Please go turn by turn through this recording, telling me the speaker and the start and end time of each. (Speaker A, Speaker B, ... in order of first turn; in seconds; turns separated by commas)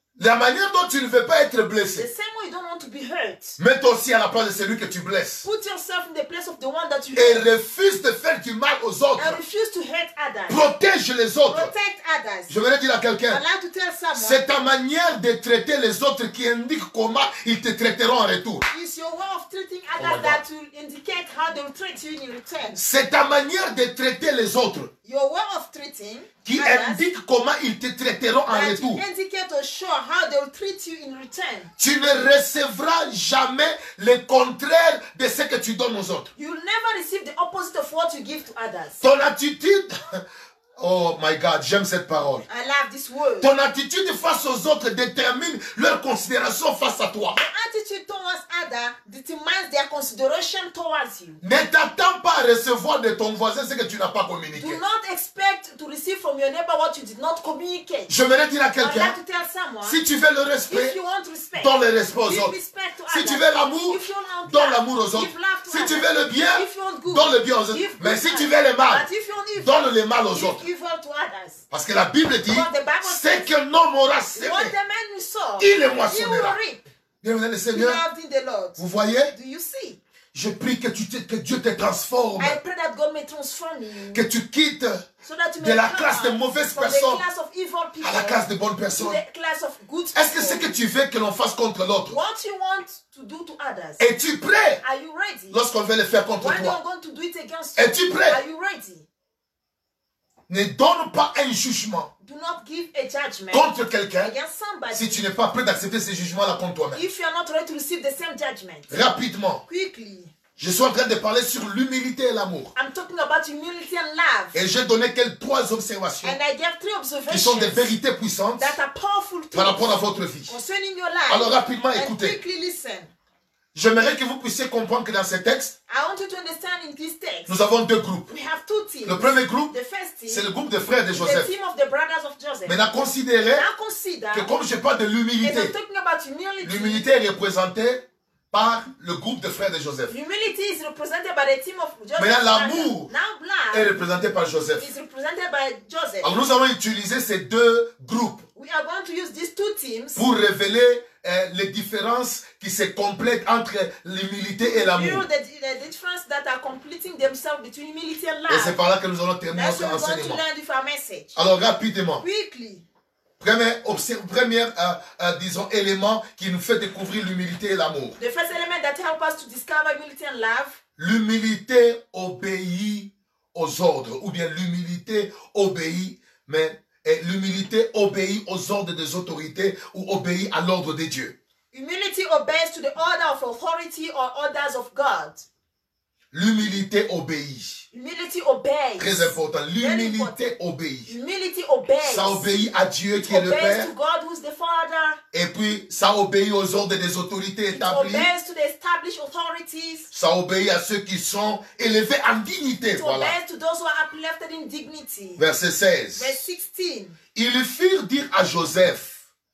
Speaker A: 0.2-2.0, Speaker B: 1.9-3.6, Speaker A: 3.6-5.4, Speaker B: 5.4-7.5, Speaker A: 7.1-9.4, Speaker B: 9.2-10.6, Speaker A: 10.5-11.7, Speaker B: 11.5-12.5, Speaker A: 12.5-13.4, Speaker B: 13.3-14.4, Speaker A: 14.1-18.6, Speaker B: 18.7-22.8, Speaker A: 20.0-20.4, Speaker A: 22.8-24.9, Speaker B: 25.0-27.0, Speaker A: 26.4-29.0, Speaker B: 28.5-31.7, Speaker A: 31.8-36.3, Speaker B: 36.4-39.0, Speaker A: 39.0-40.2, Speaker A: 40.8-42.4, Speaker B: 42.5-43.5, Speaker A: 43.4-47.4, Speaker B: 47.3-51.4, Speaker A: 51.4-54.8, Speaker B: 54.5-58.1, Speaker A: 58.1-59.2, Speaker B: 58.8-60.0, Speaker A: 59.8-61.0, Speaker B: 60.7-71.6, Speaker A: 61.5-62.5, Speaker A: 63.1-69.0, Speaker A: 69.6-70.6, Speaker A: 71.7-74.7, Speaker B: 72.5-73.5, Speaker B: 74.3-76.8, Speaker A: 75.6-76.6, Speaker A: 77.2-78.0, Speaker B: 77.7-80.0, Speaker A: 78.8-79.3, Speaker A: 80.3-82.6, Speaker B: 82.4-84.2, Speaker A: 84.1-85.1, Speaker B: 85.2-90.7, Speaker A: 85.6-87.2, Speaker A: 88.0-89.2, Speaker A: 90.1-92.2, Speaker B: 92.1-94.0, Speaker A: 94.0-94.8, Speaker B: 94.8-95.6, Speaker A: 95.5-96.8, Speaker B: 96.4-99.0, Speaker A: 97.8-98.4, Speaker A: 100.5-102.1, Speaker B: 102.2-105.3, Speaker A: 103.5-104.3, Speaker A: 104.9-107.0, Speaker B: 106.9-108.9, Speaker A: 108.9-109.6, Speaker B: 109.7-110.3, Speaker A: 110.6-112.7, Speaker B: 112.7-114.6, Speaker A: 114.5-116.4, Speaker B: 116.2-117.9, Speaker A: 117.3-118.8, Speaker B: 118.6-123.1, Speaker A: 119.5-120.5, Speaker A: 121.3-122.4, Speaker A: 123.7-125.7, Speaker B: 125.9-127.6, Speaker A: 127.5-128.3, Speaker B: 128.3-130.5, Speaker A: 129.1-129.7, Speaker A: 130.3-131.5, Speaker B: 131.1-132.8, Speaker A: 132.7-133.7, Speaker B: 133.5-134.5, Speaker A: 134.3-135.7, Speaker B: 135.4-137.1, Speaker A: 136.6-140.1, Speaker B: 140.1-143.9, Speaker A: 142.2-143.1, Speaker A: 143.7-144.9, Speaker B: 144.8-146.3, Speaker A: 146.2-148.4, Speaker B: 148.5-150.2, Speaker A: 150.2-155.2, Speaker B: 154.6-158.8, Speaker A: 158.5-160.4, Speaker B: 159.5-161.4, Speaker A: 161.3-162.2, Speaker B: 162.2-162.8, Speaker A: 163.4-168.2, Speaker B: 168.2-170.8, Speaker A: 171.0-181.3, Speaker B: 181.7-185.4, Speaker A: 186.3-187.8, Speaker B: 187.9-190.5, Speaker A: 189.0-191.1, Speaker B: 191.1-192.5, Speaker A: 192.0-193.9, Speaker B: 193.2-195.2, Speaker A: 195.3-198.3, Speaker B: 197.7-200.1, Speaker A: 200.1-203.3, Speaker B: 202.9-205.4, Speaker A: 205.4-206.4, Speaker B: 206.1-207.2, Speaker A: 207.3-209.2